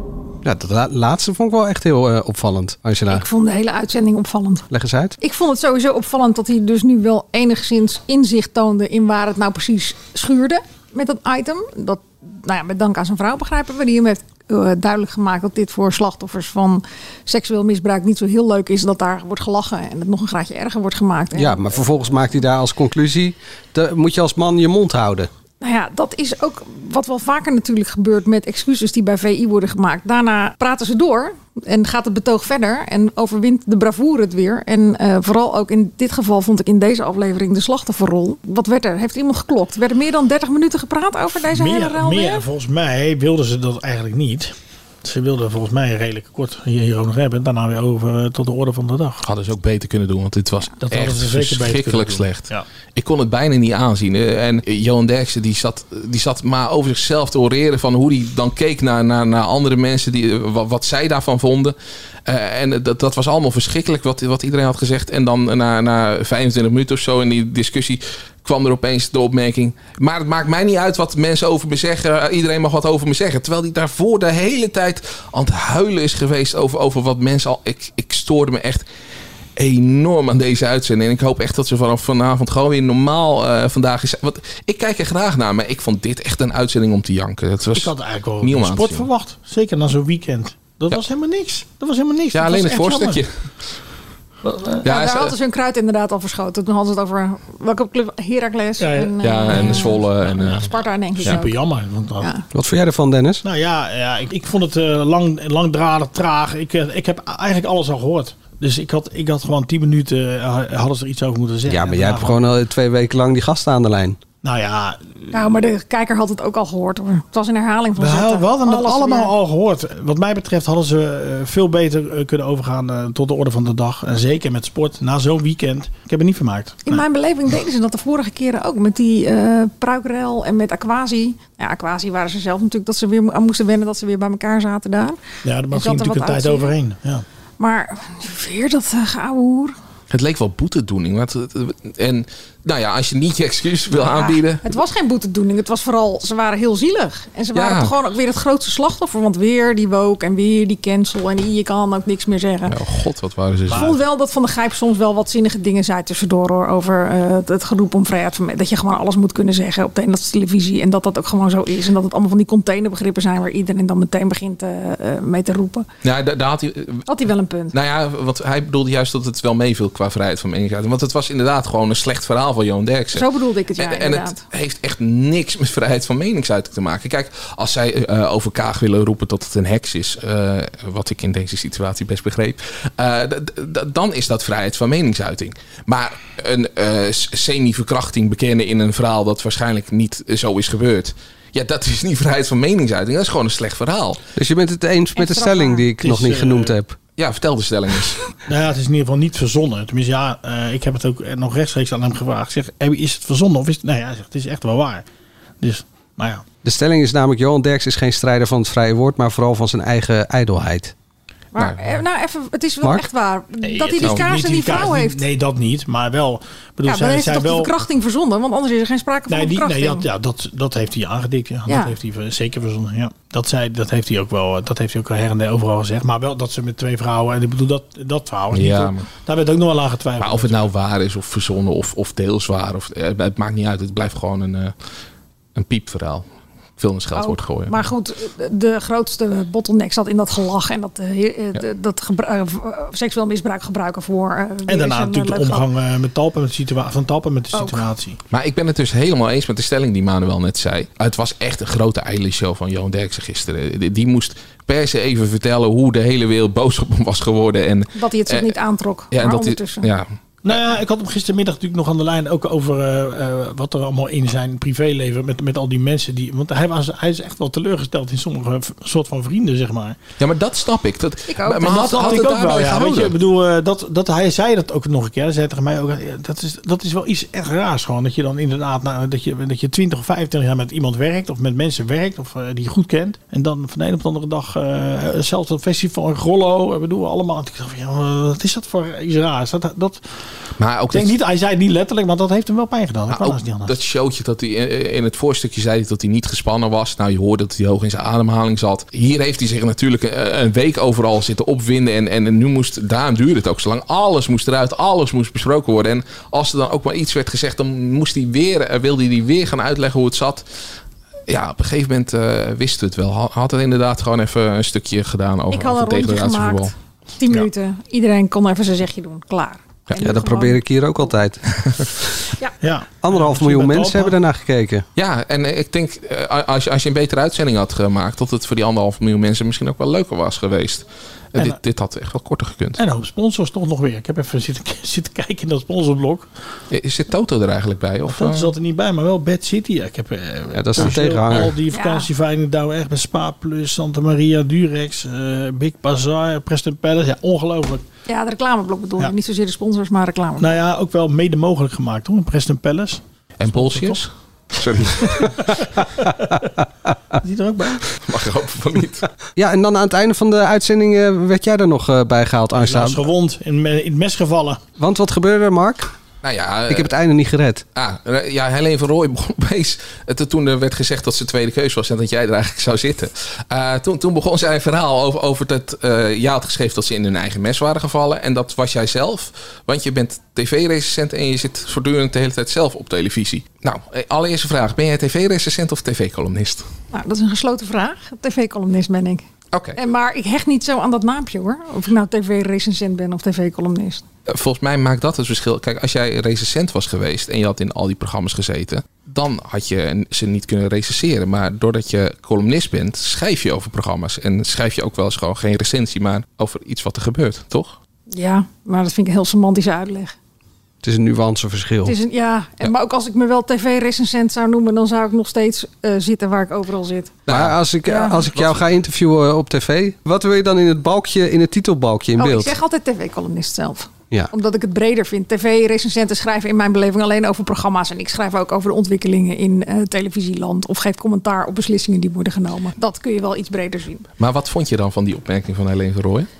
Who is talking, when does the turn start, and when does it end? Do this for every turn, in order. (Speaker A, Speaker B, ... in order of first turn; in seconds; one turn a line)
Speaker A: 0.4-3.3
Speaker B: 3.1-4.7
Speaker A: 4.7-5.2
Speaker B: 5.2-21.6
Speaker A: 21.3-25.3
Speaker B: 25.6-42.4
Speaker C: 41.5-49.2
Speaker D: 49.2-61.8
Speaker C: 50.8-52.7
Speaker D: 62.3-78.8
Speaker D: 79.6-89.1
Speaker C: 87.7-93.2
Speaker D: 92.3-93.3
Speaker C: 94.4-94.8
Speaker D: 94.8-95.3
Speaker B: 94.8-101.5
Speaker C: 98.8-99.9
Speaker D: 99.2-100.7
Speaker C: 101.2-102.3
Speaker A: 102.5-103.4
Speaker C: 103.4-112.4
Speaker A: 111.7-114.2
Speaker C: 114.4-115.3
Speaker B: 115.3-119.3
Speaker C: 118.0-127.0
Speaker B: 126.9-135.2
Speaker C: 135.4-137.2
Speaker B: 135.7-136.7
Speaker B: 137.6-139.8
Speaker D: 140.1-144.6
Speaker B: 144.1-152.7
Speaker D: 147.5-147.9
Speaker D: 152.7-153.9
Speaker C: 153.7-154.0
Speaker B: 153.7-165.9
Speaker D: 166.0-167.1
Speaker B: 167.1-167.8
Speaker D: 167.7-194.2
Speaker B: 173.1-174.4
Speaker A: 194.4-197.0
Speaker B: 195.2-195.9
Speaker C: 196.0-196.7
Speaker D: 197.2-198.2
Speaker C: 198.4-205.1
Speaker C: 205.6-206.4
Speaker A: 206.6-210.9
Speaker B: 211.5-215.2
Speaker D: 211.6-212.0
Speaker C: 213.7-217.7
Speaker D: 214.0-214.3
Speaker B: 216.8-220.1
Speaker C: 219.3-230.7
Speaker B: 221.7-221.9
Speaker D: 228.5-229.0
Speaker D: 230.2-234.7
Speaker D: 235.6-237.8
Speaker B: 237.2-245.7
Speaker C: 244.7-248.2
Speaker B: 247.5-247.9
Speaker D: 248.3-258.6
Speaker B: 257.9-259.9
Speaker D: 259.1-260.6
Speaker C: 260.4-270.0
Speaker D: 270.2-273.2
Speaker B: 271.3-272.3
Speaker C: 271.6-290.0
Speaker D: 290.6-291.1
Speaker C: 290.9-293.7
Speaker D: 293.1-310.4
Speaker D: 311.3-316.7
Speaker B: 315.5-321.1
Speaker A: 319.9-321.8
Speaker C: 322.6-324.2
Speaker A: 323.0-324.9
Speaker D: 325.0-332.8
Speaker C: 332.8-336.3
Speaker D: 336.7-338.5
Speaker C: 338.1-347.9
Speaker A: 340.5-341.6
Speaker B: 341.7-342.1
Speaker B: 348.1-350.6
Speaker C: 350.4-354.0
Speaker D: 353.4-355.5
Speaker C: 355.1-356.4
Speaker C: 357.2-357.9
Speaker D: 358.0-359.1
Speaker A: 359.4-363.0
Speaker C: 362.6-364.6
Speaker A: 364.8-365.9
Speaker D: 366.2-366.9
Speaker A: 366.7-367.6
Speaker D: 367.8-386.7
Speaker B: 386.9-389.2
Speaker D: 389.5-389.8
Speaker B: 389.8-394.0
Speaker D: 394.3-407.8
Speaker B: 408.1-410.1
Speaker A: 410.8-411.9
Speaker B: 411.9-417.1
Speaker D: 417.3-417.6
Speaker A: 417.3-422.6
Speaker B: 417.9-418.3
Speaker D: 418.3-418.6
Speaker B: 422.2-434.1
Speaker D: 434.2-436.3